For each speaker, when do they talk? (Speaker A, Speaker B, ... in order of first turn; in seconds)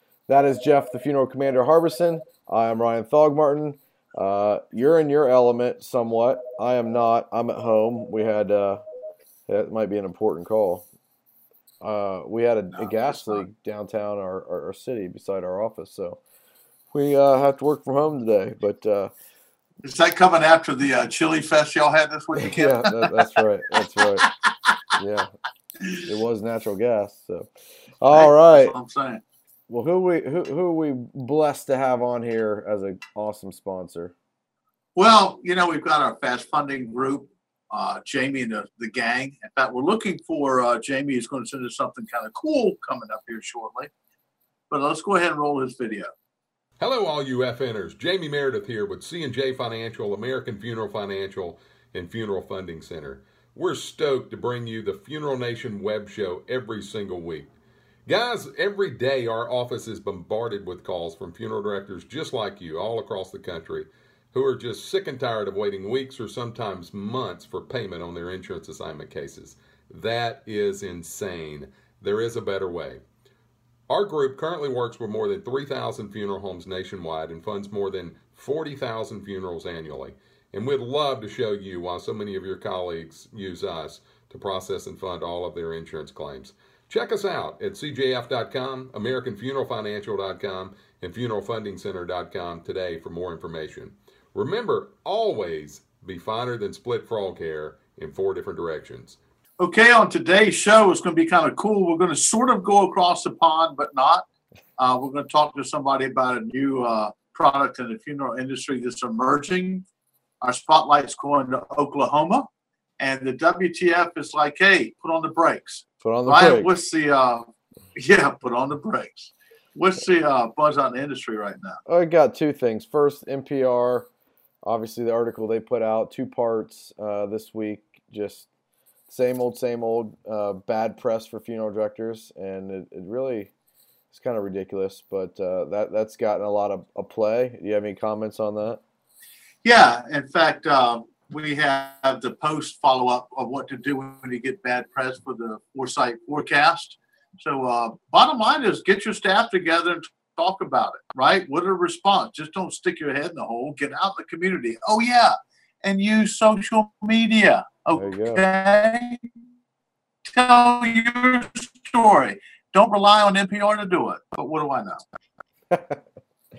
Speaker A: 0.3-8.8, 9.5-10.8, 11.8-16.2, 16.9-19.1, 22.4-24.3, 25.0-25.3, 26.0-28.8, 29.7-34.1, 116.0-116.7, 121.9-124.1, 124.6-128.5, 129.1-133.5, 134.1-138.8, 157.9-158.4, 165.7-166.0
Speaker B: 12.7-13.4, 19.8-23.3, 24.2-24.8, 28.1-29.2, 35.0-43.9, 44.7-46.1, 99.6-104.3, 104.8-109.9, 110.4-112.5, 113.0-121.8, 139.6-159.2, 160.3-165.0
Speaker C: 46.8-57.5, 58.1-73.0, 73.9-99.2